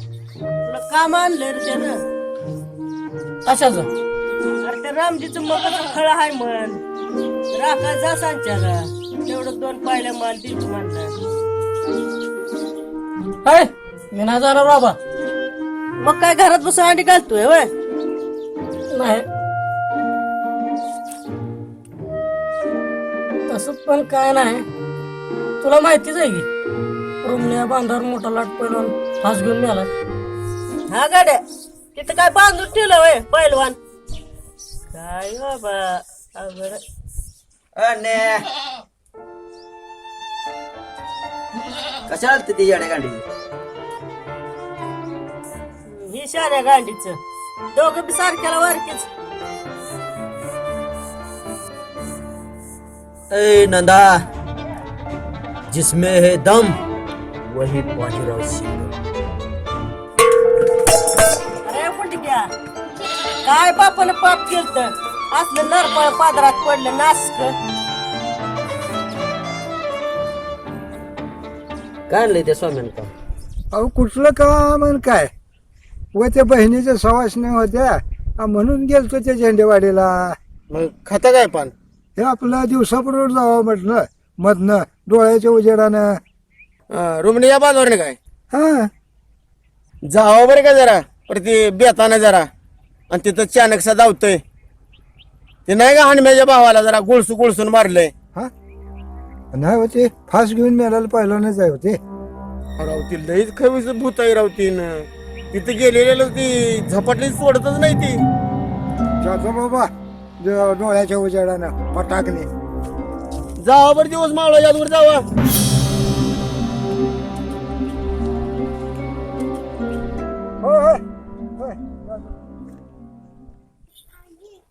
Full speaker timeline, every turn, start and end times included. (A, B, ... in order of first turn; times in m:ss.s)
0:00.7-0:02.0 A
0:03.4-0:03.9 B
0:04.6-0:06.8 A
0:07.5-0:11.1 A
0:13.4-0:15.0 B
0:16.0-0:17.7 A
0:18.9-0:19.2 B
0:23.5-0:24.6 B
0:25.6-0:26.5 B
0:27.2-0:29.9 B
0:30.9-0:31.4 A
0:32.0-0:33.8 A
0:34.9-0:36.8 A
0:37.8-0:38.4 C
0:42.1-0:43.2 C
0:45.9-0:47.1 A
0:47.8-0:49.0 A
0:53.3-0:54.2 C
0:55.7-0:56.8 C
0:57.5-0:58.9 C
1:01.7-1:02.4 A
1:03.5-1:07.5 A
1:12.1-1:13.1 C
1:13.7-1:15.3 D
1:16.1-1:20.4 D
1:20.7-1:21.7 E
1:22.2-1:26.2 D
1:26.9-1:28.2 E
1:28.5-1:28.9 D
1:30.1-1:32.5 E
1:33.1-1:34.4 E
1:35.7-1:38.1 E
1:39.5-1:42.0 D
1:42.8-1:48.2 E
1:49.2-1:49.9 D
1:50.4-1:52.5 D
1:53.6-1:55.2 E
2:00.6-2:01.0 D
2:01.6-2:02.0 D